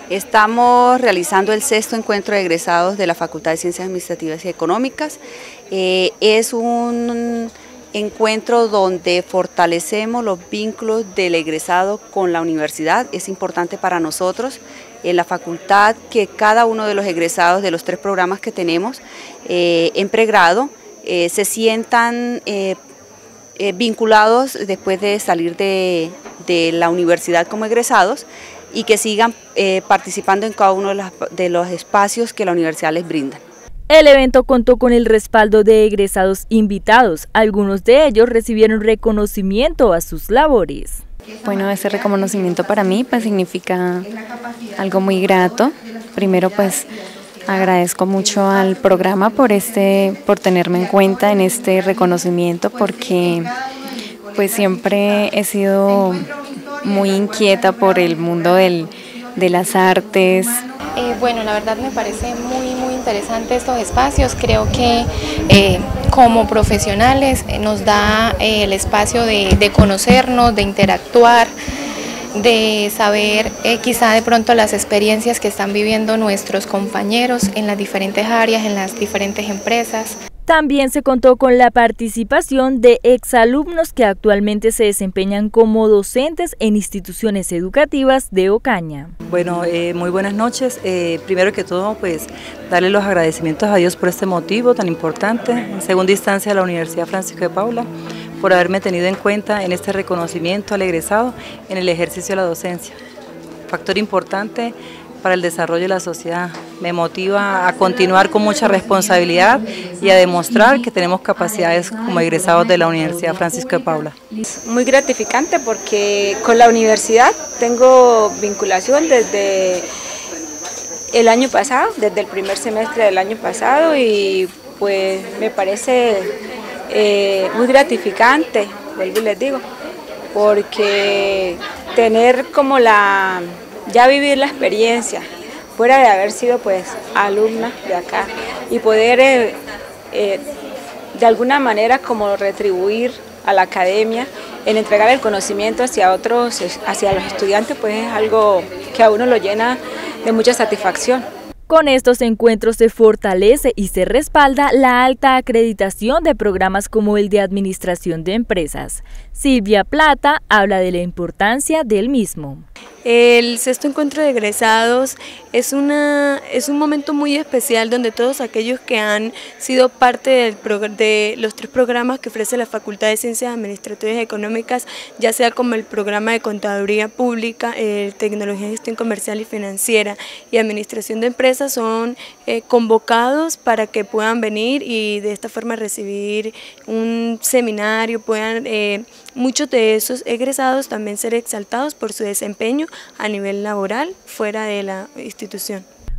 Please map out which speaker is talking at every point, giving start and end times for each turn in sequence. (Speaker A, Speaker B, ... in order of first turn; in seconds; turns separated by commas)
Speaker A: 0.1-22.8, Speaker A: 23.6-33.4, Speaker B: 33.9-41.0, Speaker C: 41.5-44.1, Speaker C: 44.8-47.0, Speaker C: 47.5-53.5, Speaker C: 54.3-60.7, Speaker D: 61.0-71.5, Speaker D: 72.4-80.2, Speaker B: 80.5-89.1, Speaker E: 89.3-103.0, Speaker E: 103.7-114.2, Speaker F: 114.5-119.8, Speaker F: 121.1-126.3, Speaker F: 126.9-129.6, Speaker F: 130.3-139.6, Speaker F: 140.1-140.4, Speaker F: 141.1-151.3, Speaker B: 151.7-162.7, Speaker G: 163.1-195.8